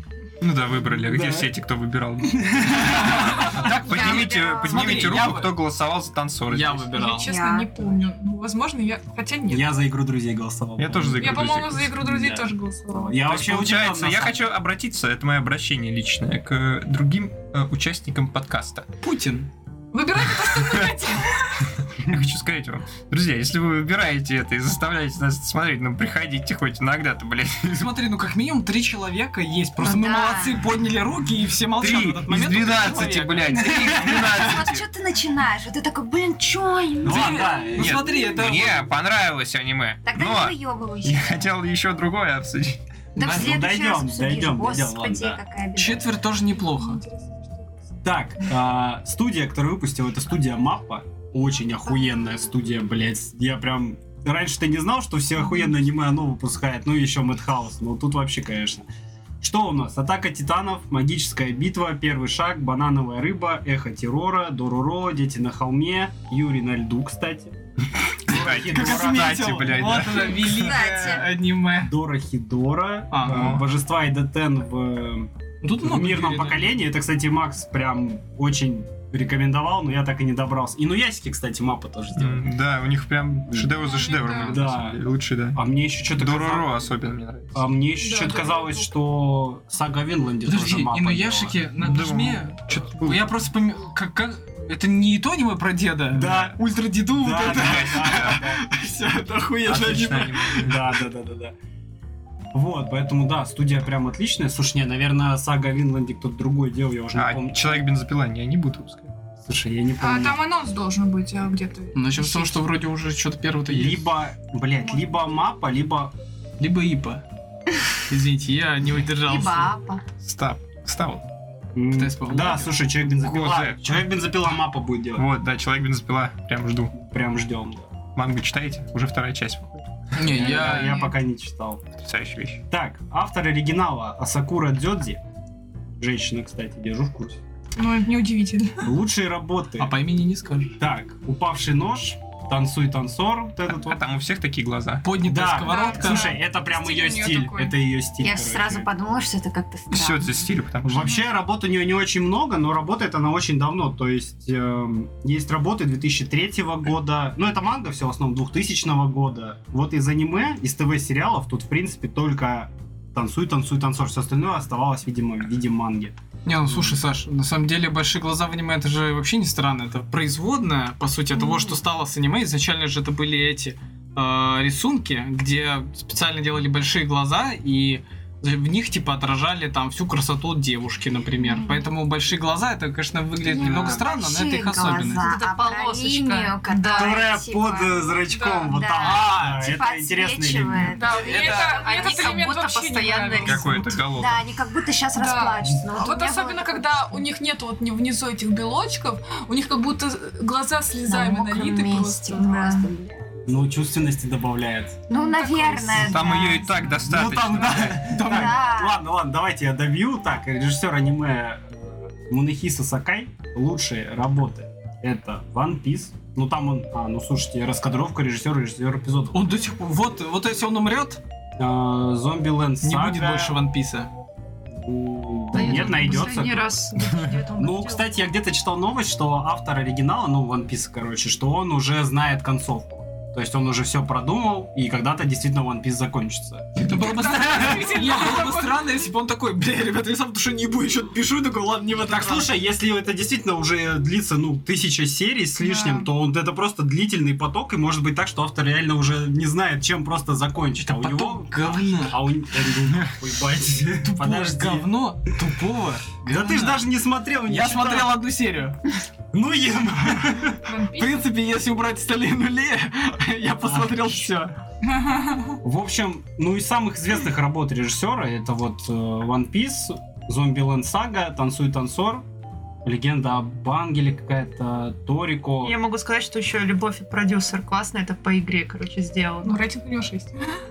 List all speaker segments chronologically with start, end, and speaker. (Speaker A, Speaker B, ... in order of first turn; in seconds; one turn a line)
Speaker A: 0.4-6.9
Speaker B: 1.0-1.5
Speaker B: 2.2-3.4
Speaker C: 3.6-5.1
Speaker D: 4.0-5.6
Speaker D: 6.5-7.3
Speaker E: 6.9-9.7
Speaker C: 7.2-7.7
Speaker B: 9.5-14.5
Speaker A: 10.8-11.9
Speaker E: 11.1-13.2
Speaker A: 13.2-18.9
Speaker D: 19.0-19.5
Speaker E: 19.9-21.6
Speaker A: 20.2-21.0
Speaker A: 21.8-27.9
Speaker D: 27.7-34.3
Speaker C: 29.8-30.6
Speaker B: 31.8-32.7
Speaker A: 31.8-34.8
Speaker C: 33.6-37.5
Speaker B: 37.0-38.1
Speaker D: 37.0-38.8
Speaker A: 37.8-42.8
Speaker C: 40.0-41.5
Speaker C: 43.1-46.1
Speaker B: 43.2-45.4
Speaker D: 45.7-47.0
Speaker E: 46.6-47.7
Speaker B: 48.0-58.9
Speaker B: 59.4-67.5
Speaker B: 68.2-69.7
Speaker A: 68.3-70.7
Speaker D: 68.6-71.9
Speaker C: 70.4-71.3
Speaker B: 71.8-82.5
Speaker D: 73.1-73.6
Speaker A: 73.2-73.6
Speaker D: 75.6-76.8
Speaker A: 82.2-87.8
Speaker E: 83.8-84.6
Speaker B: 84.5-85.0
Speaker B: 85.5-86.9
Speaker B: 87.5-91.7
Speaker E: 88.0-88.9
Speaker D: 90.4-100.8
Speaker A: 91.8-93.3
Speaker B: 96.1-98.6
Speaker A: 97.5-98.4
Speaker A: 99.7-100.8
Speaker B: 100.6-101.5
Speaker B: 102.5-107.9
Speaker A: 107.1-109.1
Speaker B: 109.4-110.4
Speaker E: 110.0-112.7
Speaker D: 111.9-114.0
Speaker B: 113.7-116.1
Speaker D: 116.6-117.2
Speaker D: 118.1-119.7
Speaker C: 119.2-120.0
Speaker A: 120.2-121.2
Speaker B: 121.7-125.3
Speaker D: 121.9-122.8
Speaker A: 123.2-124.0
Speaker A: 125.1-126.9
Speaker B: 126.9-127.9
Speaker A: 128.2-130.2
Speaker D: 130.1-131.0
Speaker B: 130.3-131.8
Speaker E: 130.3-131.1
Speaker A: 132.0-132.6
Speaker B: 132.7-135.2
Speaker B: 136.0-137.4
Speaker E: 137.8-138.9
Speaker B: 138.8-140.0
Speaker D: 139.8-140.8
Speaker B: 140.8-144.0
Speaker A: 143.7-145.1
Speaker D: 145.0-146.3
Speaker B: 145.2-148.9
Speaker E: 145.6-147.7
Speaker C: 148.2-150.5
Speaker A: 149.9-151.1
Speaker B: 150.8-166.2
Speaker D: 166.4-185.3
Speaker C: 181.4-181.8
Speaker C: 183.4-192.2
Speaker F: 185.1-187.3
Speaker B: 186.9-191.0
Speaker E: 188.3-188.7
Speaker D: 189.0-189.7
Speaker E: 190.8-193.9
Speaker F: 191.1-194.0
Speaker A: 193.4-194.4
Speaker C: 194.1-197.2
Speaker E: 195.1-202.9
Speaker C: 201.1-203.1
Speaker B: 203.4-205.1
Speaker C: 205.1-206.9
Speaker E: 205.1-206.6
Speaker A: 205.9-208.1
Speaker B: 207.0-219.5
Speaker D: 208.0-208.6
Speaker C: 208.2-209.0
Speaker D: 219.3-221.2
Speaker B: 221.6-223.6
Speaker D: 222.8-224.1
Speaker B: 224.7-226.8
Speaker F: 225.5-228.1
Speaker E: 225.6-226.5
Speaker B: 227.6-236.8
Speaker D: 236.8-242.5
Speaker E: 236.8-238.9
Speaker B: 242.0-255.3
Speaker E: 245.6-246.1
Speaker D: 250.8-252.2
Speaker D: 254.0-256.9
Speaker B: 256.2-258.2
Speaker D: 257.5-258.8
Speaker B: 259.3-260.6
Speaker E: 260.6-261.3
Speaker D: 260.9-264.5
Speaker B: 263.6-264.1
Speaker E: 264.8-265.6
Speaker B: 265.6-272.2
Speaker B: 272.8-275.8
Speaker F: 275.6-279.6
Speaker E: 279.4-280.6